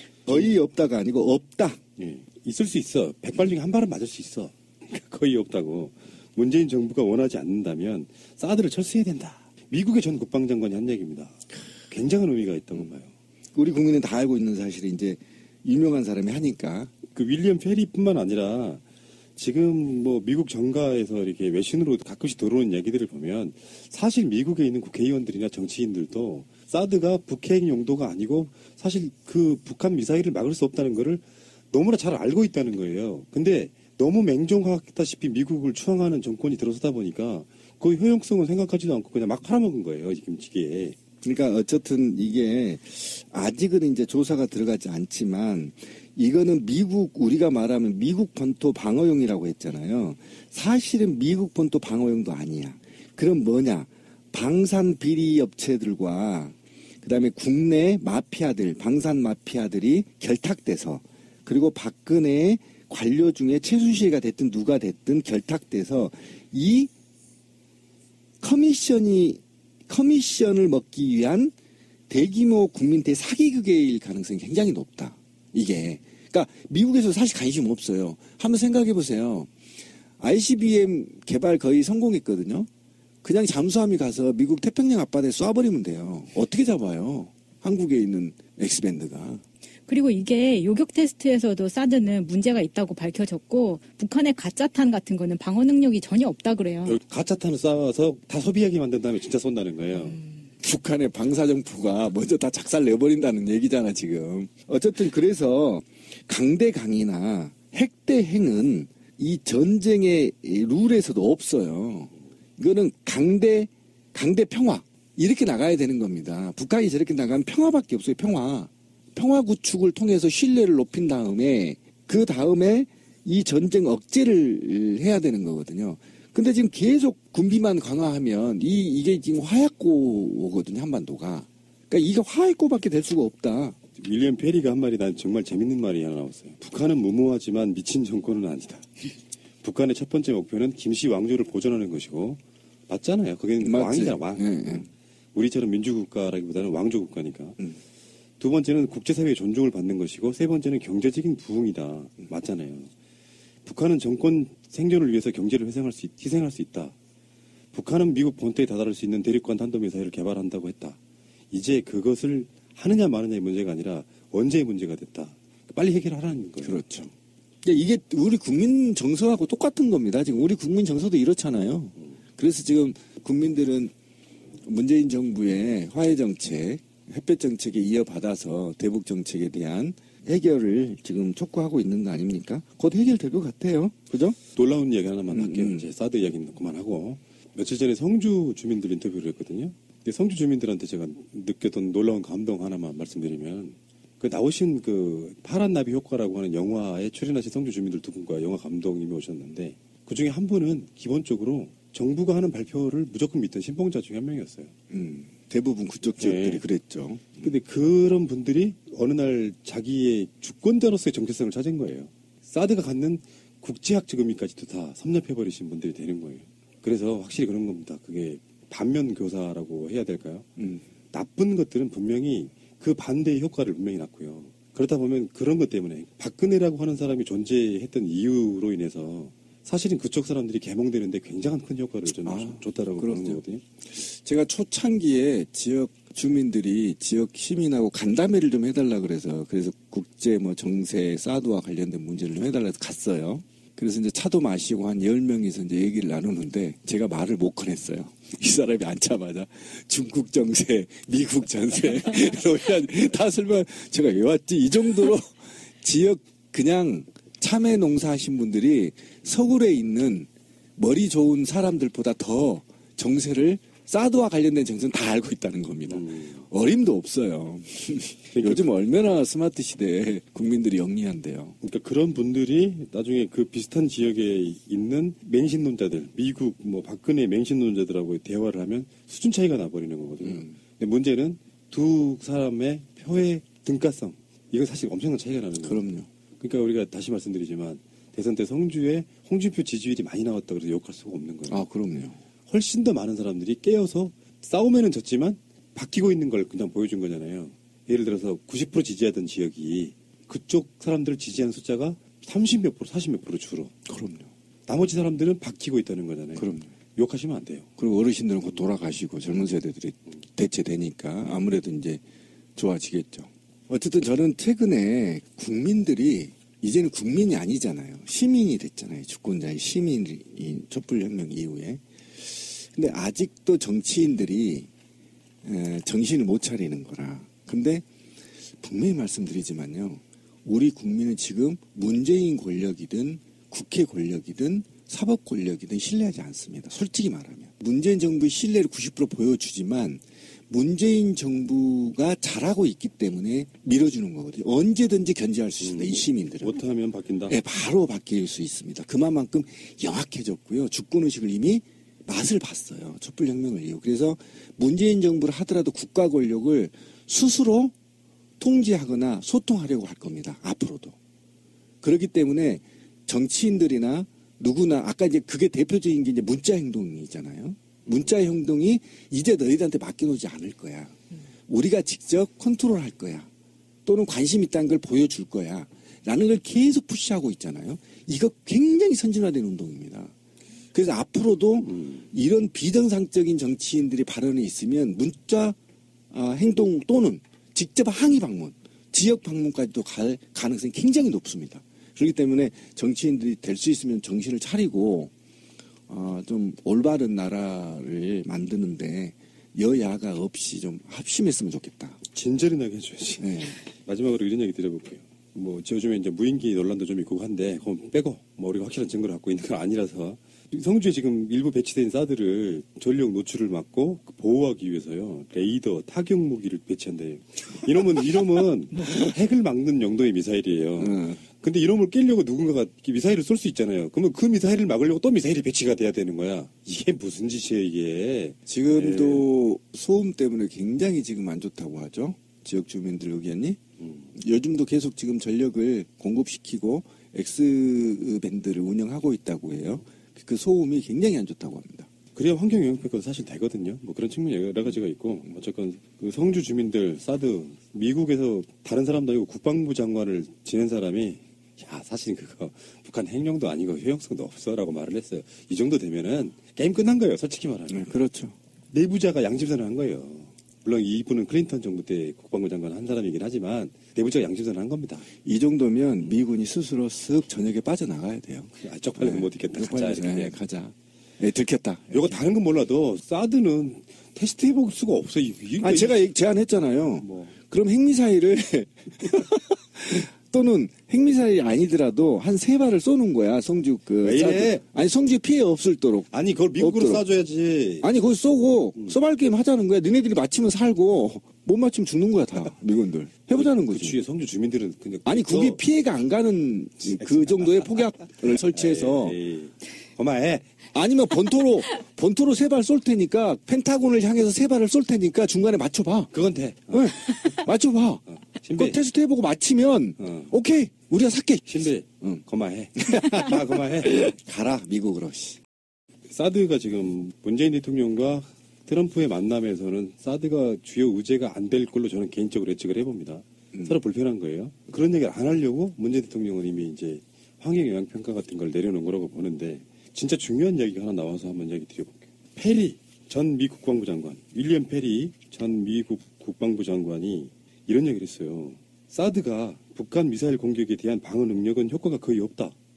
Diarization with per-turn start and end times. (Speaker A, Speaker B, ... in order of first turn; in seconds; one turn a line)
Speaker A: 0.2-1.8
Speaker B: 2.0-13.1
Speaker A: 13.5-16.9
Speaker B: 17.1-18.8
Speaker B: 19.4-41.0
Speaker A: 41.2-66.9
Speaker A: 68.4-71.5
Speaker A: 72.1-79.5
Speaker A: 80.2-82.7
Speaker A: 83.2-89.4
Speaker C: 89.9-97.0
Speaker B: 96.8-100.2
Speaker A: 100.6-133.8
Speaker B: 134.0-139.1
Speaker B: 139.6-147.6
Speaker A: 143.6-144.8
Speaker B: 148.4-152.9
Speaker B: 153.6-156.9
Speaker B: 157.7-161.0
Speaker B: 161.5-166.8
Speaker A: 166.6-167.1
Speaker A: 167.6-173.9
Speaker A: 174.6-184.4
Speaker B: 184.5-204.7
Speaker A: 185.3-185.8
Speaker A: 204.9-207.5
Speaker B: 206.2-206.6
Speaker B: 207.4-220.5
Speaker A: 220.6-220.8
Speaker B: 221.1-233.6
Speaker A: 232.2-271.6
Speaker B: 265.9-266.4
Speaker B: 268.3-268.7
Speaker B: 271.6-285.9
Speaker A: 280.2-280.5
Speaker A: 285.6-286.1
Speaker B: 286.4-291.6
Speaker A: 291.5-292.2
Speaker B: 292.5-303.7
Speaker A: 303.9-304.3
Speaker B: 304.7-307.7
Speaker A: 306.4-306.7
Speaker A: 307.8-312.0
Speaker A: 312.6-324.7
Speaker A: 325.4-327.9
Speaker A: 328.5-346.6
Speaker B: 345.6-347.4
Speaker A: 347.3-357.7
Speaker A: 358.4-360.9
Speaker A: 361.8-370.9
Speaker A: 371.5-373.2
Speaker A: 373.9-380.1
Speaker A: 380.7-385.6
Speaker B: 381.7-382.0
Speaker A: 386.1-395.1
Speaker A: 395.9-402.0
Speaker B: 402.1-429.3
Speaker A: 403.2-403.6
Speaker A: 420.8-421.2
Speaker A: 428.5-433.6
Speaker A: 434.1-441.9
Speaker B: 442.1-457.9
Speaker A: 457.7-458.4
Speaker B: 458.7-465.1
Speaker A: 465.2-472.1
Speaker B: 468.6-470.4
Speaker B: 471.9-476.0
Speaker A: 475.6-487.0
Speaker B: 477.0-477.3
Speaker B: 484.0-484.6
Speaker B: 486.1-487.9
Speaker A: 487.8-494.0
Speaker B: 493.3-495.6
Speaker A: 495.0-499.2
Speaker B: 497.0-500.5
Speaker A: 500.7-506.1
Speaker B: 506.1-507.3
Speaker A: 506.7-512.2
Speaker B: 508.1-508.8
Speaker B: 510.0-510.3
Speaker B: 511.4-514.1
Speaker A: 512.8-515.4
Speaker B: 516.1-542.5